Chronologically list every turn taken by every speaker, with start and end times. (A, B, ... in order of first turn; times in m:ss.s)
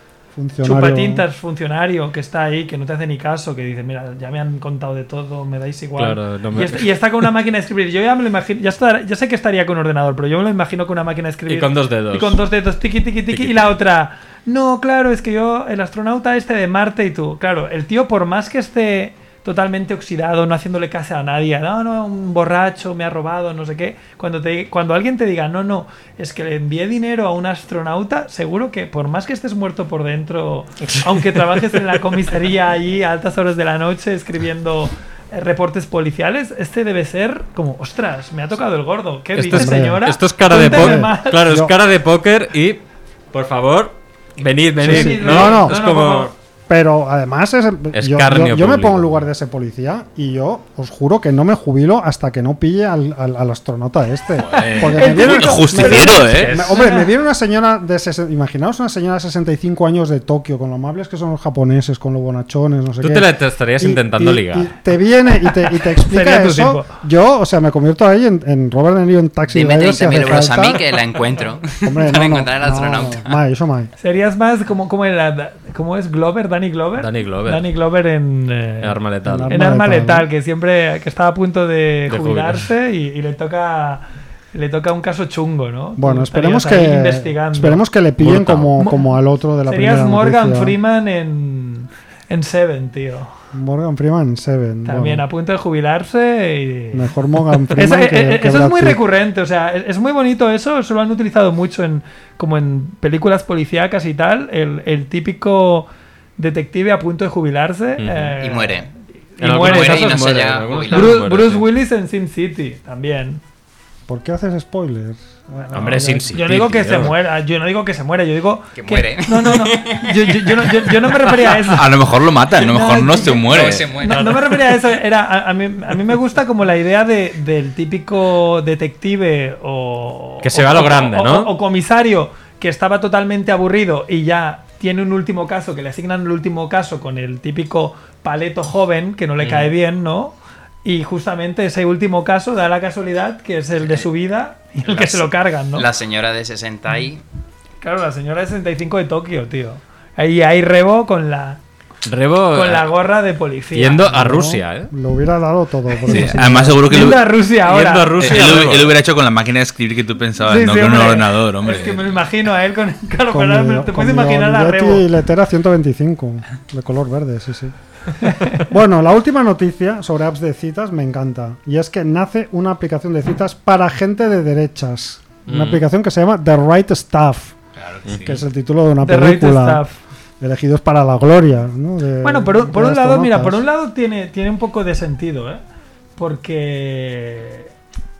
0:00.3-0:01.2 A
0:00.6-0:41.4 B
0:06.0-0:06.9 C
0:11.5-0:12.4 C
0:13.3-0:13.7 C
0:39.4-0:46.3 C
0:39.5-0:41.7 A
0:44.8-0:45.8 A
0:44.8-0:46.3 B
0:46.7-1:11.0 A
0:47.9-0:49.2 C
0:54.4-0:56.6 D
0:54.5-0:57.1 B
0:56.2-0:56.8 C
1:03.0-1:04.7 C
1:05.6-1:06.9 B
1:09.5-1:13.4 E
1:11.8-1:13.9 A
1:14.0-1:19.0 B
1:17.0-1:17.7 C
1:18.8-1:19.6 C
1:19.2-1:20.3 A
1:19.5-1:27.8 B
1:22.1-1:22.7 C
1:26.0-1:30.8 A
1:28.2-1:28.7 C
1:28.8-1:29.1 B
1:29.6-1:33.3 B
1:33.5-1:35.2 A
1:34.8-1:37.1 B
1:36.9-1:39.0 A
1:37.7-1:50.1 B
1:48.0-1:48.4 C
1:48.4-1:48.9 E
1:49.4-1:51.7 C
1:49.5-1:51.2 E
1:50.9-1:53.4 B
1:54.1-1:56.3 A
1:55.7-1:57.2 C
1:56.3-2:01.9 B
1:58.8-2:01.3 E
2:01.6-2:03.9 D
2:02.5-2:25.9 B
2:03.1-2:04.5 E
2:10.4-2:11.5 C
2:19.4-2:19.7 C
2:24.8-2:27.2 E
2:27.8-2:31.6 B
2:32.0-2:32.9 C
2:32.5-2:34.0 B
2:33.7-2:34.9 C
2:33.8-2:36.8 A
2:36.0-2:37.3 D
2:36.8-2:38.8 B
2:37.6-2:39.0 C
2:38.2-2:42.2 D
2:40.4-2:45.1 B
2:43.3-2:47.7 A
2:48.2-2:48.6 B
2:48.6-2:57.6 A
2:55.5-2:55.8 C
2:57.8-2:58.4 D
2:58.1-2:58.3 C
2:58.2-2:59.8 A
2:59.0-3:00.0 B
3:00.4-3:03.6 A
3:02.2-3:05.6 B
3:06.2-3:07.7 B